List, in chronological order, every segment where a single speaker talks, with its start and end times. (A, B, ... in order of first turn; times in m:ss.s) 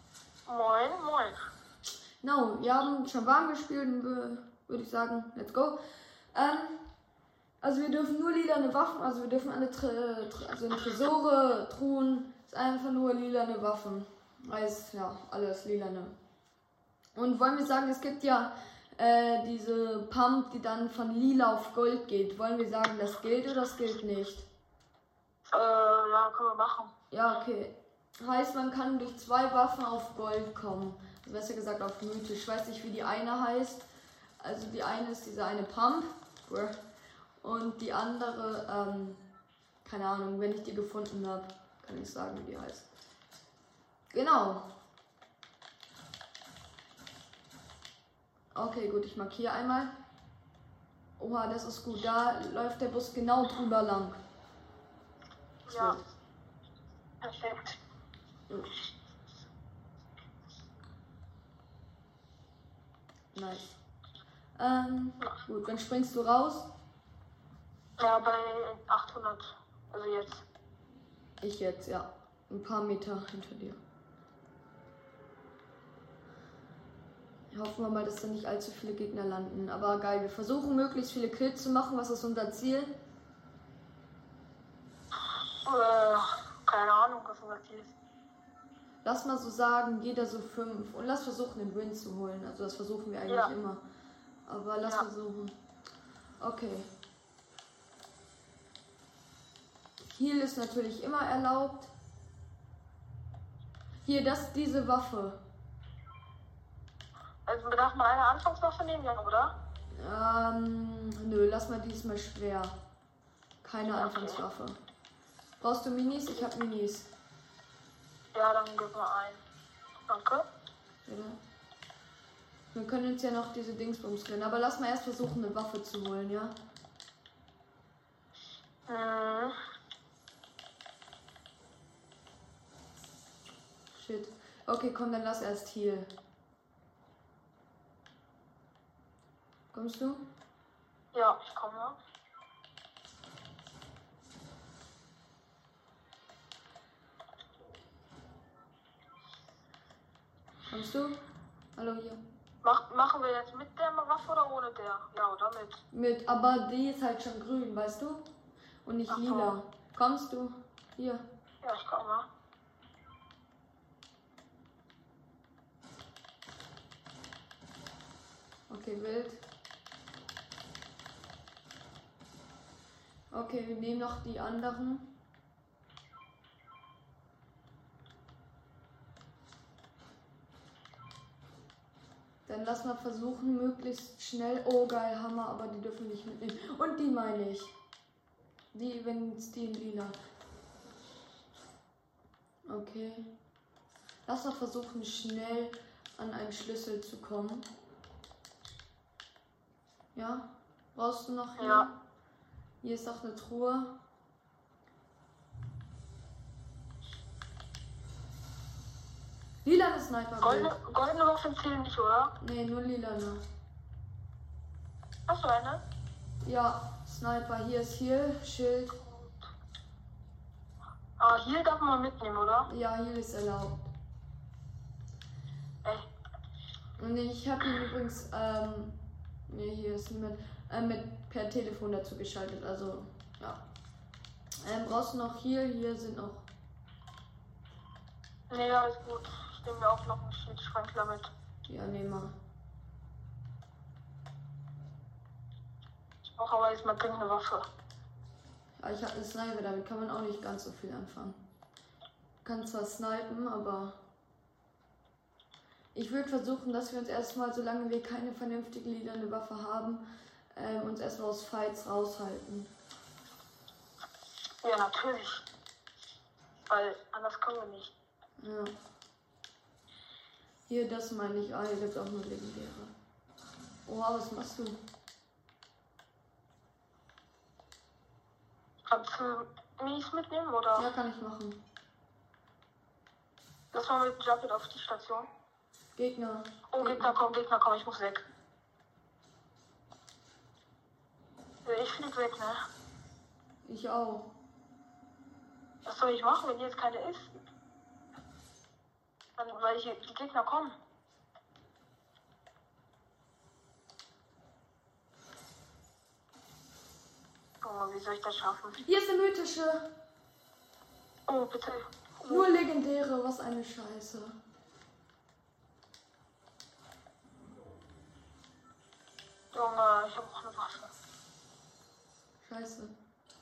0:00.5-0:01.5 A
0:02.2-0:05.8 B
0:06.3-0:06.8 B
0:07.6-0:16.2 B
0:17.2-0:24.5 B
0:25.4-0:26.9 A
0:27.1-0:33.8 B
0:34.4-0:36.8 B
0:37.4-0:39.2 B
0:39.8-0:42.9 B
0:44.1-0:44.7 B
0:48.5-0:49.9 B
0:51.2-0:54.2 B
0:55.7-0:56.0 A
0:55.7-0:56.0 B
0:57.2-0:57.8 A
1:03.3-1:03.8 B
1:04.6-1:06.7 B
1:08.0-1:10.4 A
1:11.4-1:13.8 B
1:17.5-1:23.0 B
1:25.6-1:28.0 A
1:29.0-1:33.8 B
1:33.3-1:33.5 A
1:34.5-1:35.6 B
1:36.4-1:36.9 B
1:40.1-1:41.9 B
1:44.0-1:45.4 B
1:47.4-1:49.5 A
1:50.0-1:52.7 B
1:53.6-1:54.8 B
1:53.9-1:54.4 A
1:55.6-1:57.1 B
1:58.3-1:59.4 A
2:00.1-2:00.4 A
2:01.0-2:01.4 B
2:02.7-2:06.6 B
2:08.9-2:09.6 A
2:13.9-2:16.1 B
2:19.7-2:20.2 B
2:21.1-2:22.0 A
2:30.7-2:31.2 B
2:31.7-2:32.2 B
2:32.6-2:35.8 A
2:35.9-2:38.3 B
2:38.8-2:41.2 B
2:39.1-2:39.6 A
2:41.6-2:42.3 A
2:48.7-2:49.4 B
2:53.3-2:55.1 B
3:02.4-3:07.7 B
3:08.7-3:10.2 B
3:12.7-3:13.3 B
3:14.2-3:17.7 B
3:20.1-3:22.0 B
3:21.6-3:21.9 A
3:22.8-3:24.0 B
3:29.6-3:30.7 B
3:30.4-3:32.3 A
3:32.4-3:33.4 B
3:35.3-3:35.8 A
3:36.4-3:39.0 B
3:39.0-3:39.5 A
3:41.2-3:42.7 A
3:42.7-3:43.9 B
3:47.0-3:53.6 B
3:54.6-3:56.5 B
3:58.5-4:01.3 A
4:01.7-4:02.3 B
4:06.2-4:07.7 A
4:08.8-4:11.4 B
4:12.4-4:14.0 B
4:15.9-4:22.7 B
4:24.6-4:25.4 A
4:26.7-4:27.9 A
4:28.4-4:28.7 B
4:30.7-4:32.9 B
4:33.9-4:34.8 B
4:38.9-4:40.9 A
4:40.8-4:41.6 B
4:43.7-4:45.3 A
4:46.0-4:47.1 B
4:46.7-4:48.2 A
4:51.6-4:52.6 A
4:53.6-4:54.3 B
4:55.9-4:57.3 A
4:59.4-5:00.8 A
5:07.6-5:08.8 A
5:08.8-5:09.9 B
5:11.3-5:12.5 A
5:12.3-5:14.4 B
5:19.5-5:20.9 A
5:22.4-5:22.9 B